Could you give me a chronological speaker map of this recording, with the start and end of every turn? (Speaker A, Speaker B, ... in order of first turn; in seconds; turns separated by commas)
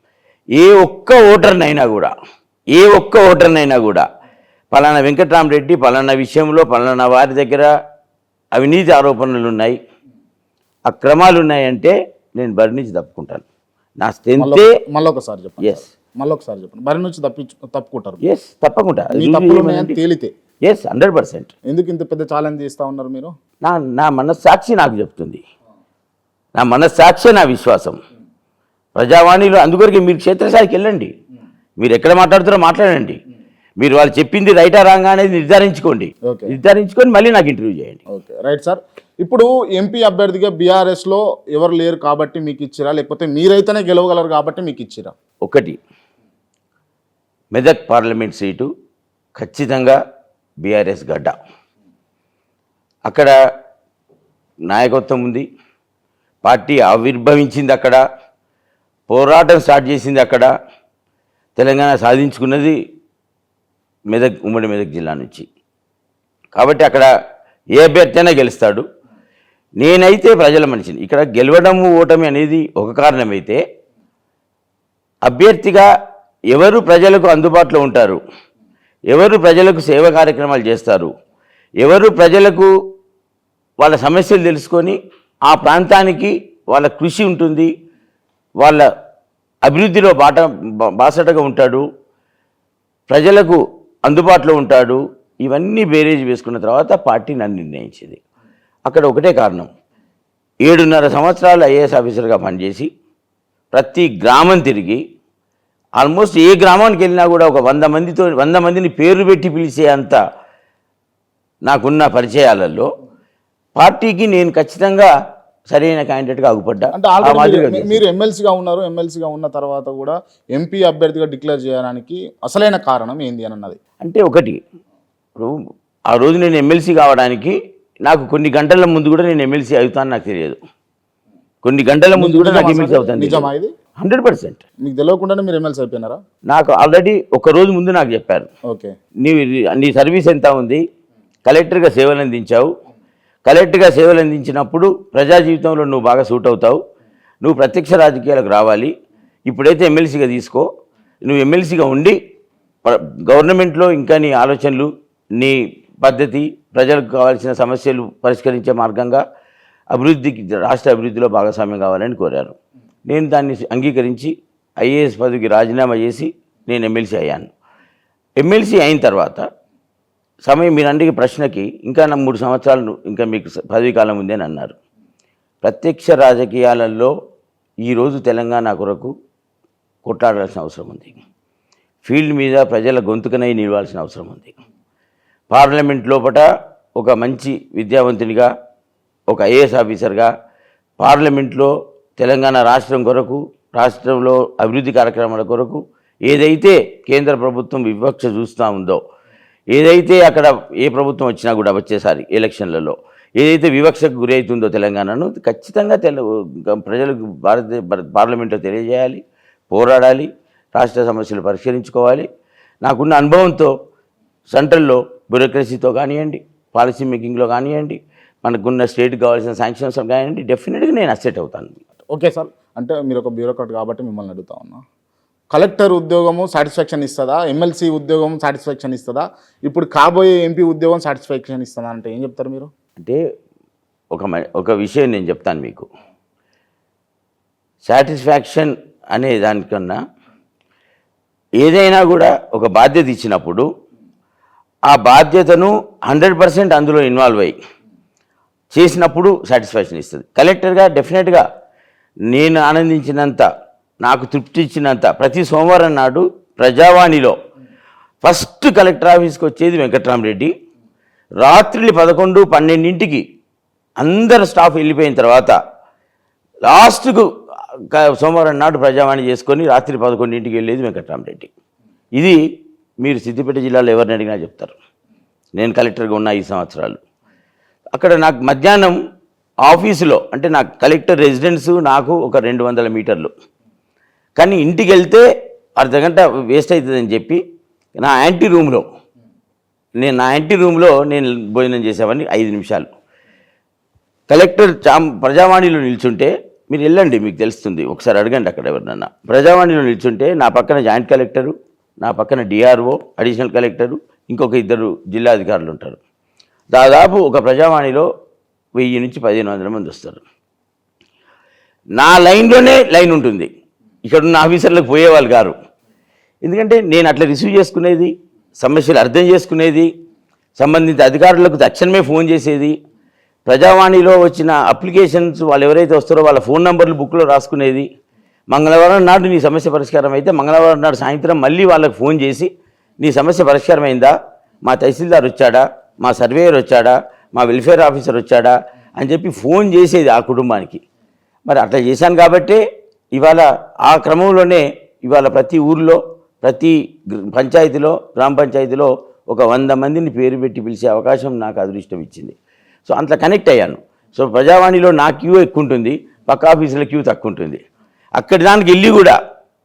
Speaker A: 0.6-2.1, Speaker A: 2.7-4.0, Speaker A: 4.7-7.7, Speaker A: 8.6-9.8, Speaker A: 10.9-13.4, Speaker A: 14.0-14.7, Speaker B: 14.4-18.2, Speaker A: 15.6-15.9, Speaker A: 18.2-20.0, Speaker B: 19.1-20.3, Speaker A: 20.6-21.5, Speaker B: 21.7-23.3, Speaker A: 23.6-25.4, Speaker A: 26.6-28.0, Speaker A: 28.9-31.1, Speaker A: 31.8-33.2, Speaker A: 33.8-38.0, Speaker B: 36.3-36.5, Speaker B: 38.1-45.1, Speaker A: 45.4-45.8, Speaker A: 47.5-48.7, Speaker A: 49.4-50.0, Speaker A: 50.6-51.3, Speaker A: 53.1-53.3, Speaker A: 54.7-55.5, Speaker A: 56.4-58.0, Speaker A: 59.1-60.5, Speaker A: 61.6-62.8, Speaker A: 64.1-65.5, Speaker A: 66.5-67.1, Speaker A: 67.8-68.8, Speaker A: 69.8-73.6, Speaker A: 75.2-75.9, Speaker A: 76.5-78.2, Speaker A: 79.1-81.1, Speaker A: 81.8-82.7, Speaker A: 83.8-87.7, Speaker A: 88.6-88.8, Speaker A: 89.6-90.5, Speaker A: 91.0-91.8, Speaker A: 93.1-98.2, Speaker A: 98.8-99.7, Speaker A: 100.6-102.9, Speaker A: 103.7-105.0, Speaker A: 106.0-110.2, Speaker A: 111.7-112.9, Speaker A: 113.8-115.1, Speaker A: 115.7-118.0, Speaker B: 116.9-123.8, Speaker A: 124.0-124.6, Speaker A: 126.1-130.6, Speaker A: 131.6-133.5, Speaker B: 132.2-133.7, Speaker A: 134.0-134.6, Speaker B: 134.8-136.2, Speaker A: 136.5-138.5, Speaker B: 138.7-138.9, Speaker A: 139.2-140.8, Speaker A: 141.4-142.7, Speaker A: 143.4-146.8, Speaker A: 147.4-148.9, Speaker A: 149.5-150.7, Speaker A: 151.2-152.2, Speaker A: 152.8-159.2, Speaker A: 159.9-162.6, Speaker A: 163.1-167.5, Speaker A: 168.4-169.4, Speaker A: 170.5-174.8, Speaker A: 175.6-177.1, Speaker A: 177.8-179.1, Speaker A: 180.0-181.2, Speaker A: 182.0-184.5, Speaker A: 185.5-186.4, Speaker A: 187.0-188.5, Speaker A: 189.3-190.3, Speaker A: 191.0-199.0, Speaker A: 199.7-212.3, Speaker A: 212.8-213.7, Speaker A: 214.5-221.8, Speaker B: 222.1-224.8, Speaker B: 225.5-232.7, Speaker A: 234.1-235.9, Speaker A: 237.8-240.0, Speaker A: 241.6-243.7, Speaker A: 244.9-247.6, Speaker A: 248.7-251.4, Speaker A: 252.3-253.5, Speaker A: 254.0-257.3, Speaker A: 258.2-260.5, Speaker A: 261.4-263.2, Speaker A: 264.0-265.5, Speaker A: 266.7-267.2, Speaker A: 267.9-271.5, Speaker A: 273.0-274.7, Speaker A: 275.6-277.0, Speaker A: 277.9-279.0, Speaker A: 279.7-283.3, Speaker A: 284.4-285.2, Speaker A: 285.8-287.4, Speaker A: 287.9-288.8, Speaker A: 290.0-292.9, Speaker A: 294.3-306.0, Speaker A: 306.7-308.1, Speaker A: 308.8-310.2, Speaker A: 312.0-313.5, Speaker A: 314.1-315.5, Speaker A: 316.4-319.9, Speaker A: 320.6-322.8, Speaker A: 323.4-327.9, Speaker A: 328.5-334.1, Speaker A: 334.6-340.8, Speaker A: 341.5-342.6, Speaker A: 343.1-346.8, Speaker A: 347.3-352.4, Speaker A: 352.9-357.6, Speaker A: 358.2-359.2